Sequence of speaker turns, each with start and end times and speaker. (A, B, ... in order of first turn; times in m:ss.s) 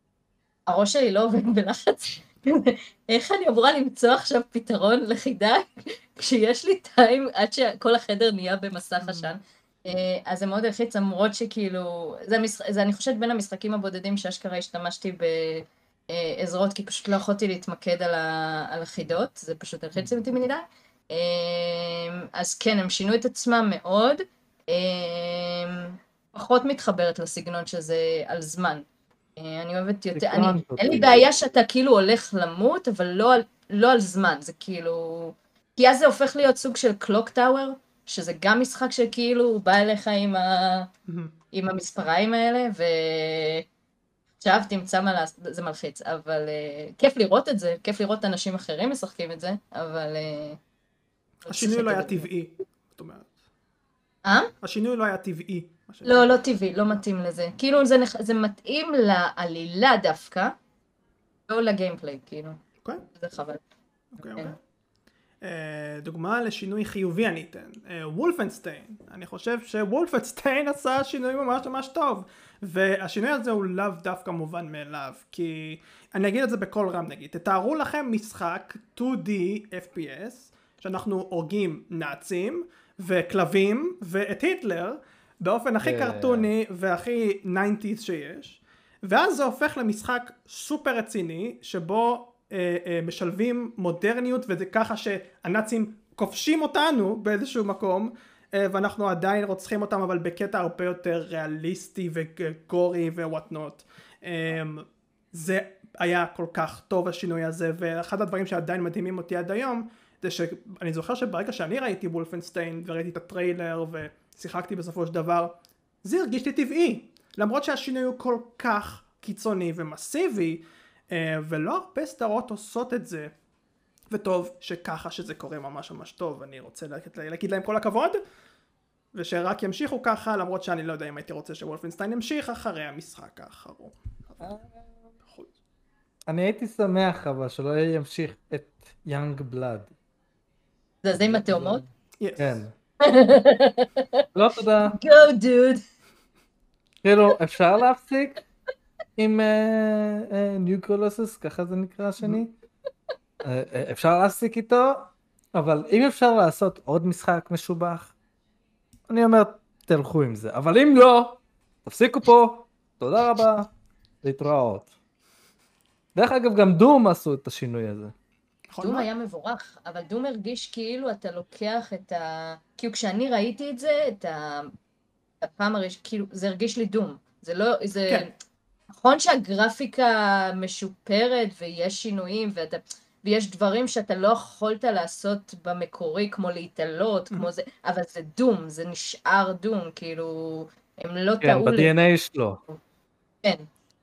0:00.7-0:28.8 A
0:09.0-0:09.3 B
0:29.4-0:40.9 A
0:30.1-0:31.3 C
0:41.1-0:41.3 B
0:41.5-0:43.6 A
0:44.4-0:50.6 A
0:51.4-0:52.3 A
0:51.4-0:53.3 B
0:54.2-0:54.5 A
0:54.6-0:56.3 B
0:56.0-1:00.5 A
1:01.5-1:02.6 A
1:03.1-1:03.6 A
1:04.2-1:04.6 B
1:04.2-1:04.5 A
1:05.4-2:03.3 B
1:25.8-1:26.5 C
2:04.1-2:08.2 B
2:09.1-2:14.6 B
2:15.2-2:15.5 B
2:16.3-2:19.9 C
2:21.0-2:21.8 A
2:21.2-2:21.8 C
2:22.2-2:22.6 B
2:22.4-2:22.7 C
2:23.0-2:24.2 A
2:24.3-2:25.0 C
2:24.8-2:25.8 A
2:27.0-2:28.4 C
2:29.2-2:32.5 C
2:33.4-2:38.1 C
2:39.1-2:43.7 C
2:44.2-2:44.9 C
2:46.1-2:48.1 C
2:48.7-2:49.1 B
2:48.8-2:54.7 A
2:55.4-2:58.3 A
2:59.0-3:11.9 A
3:11.4-3:12.6 C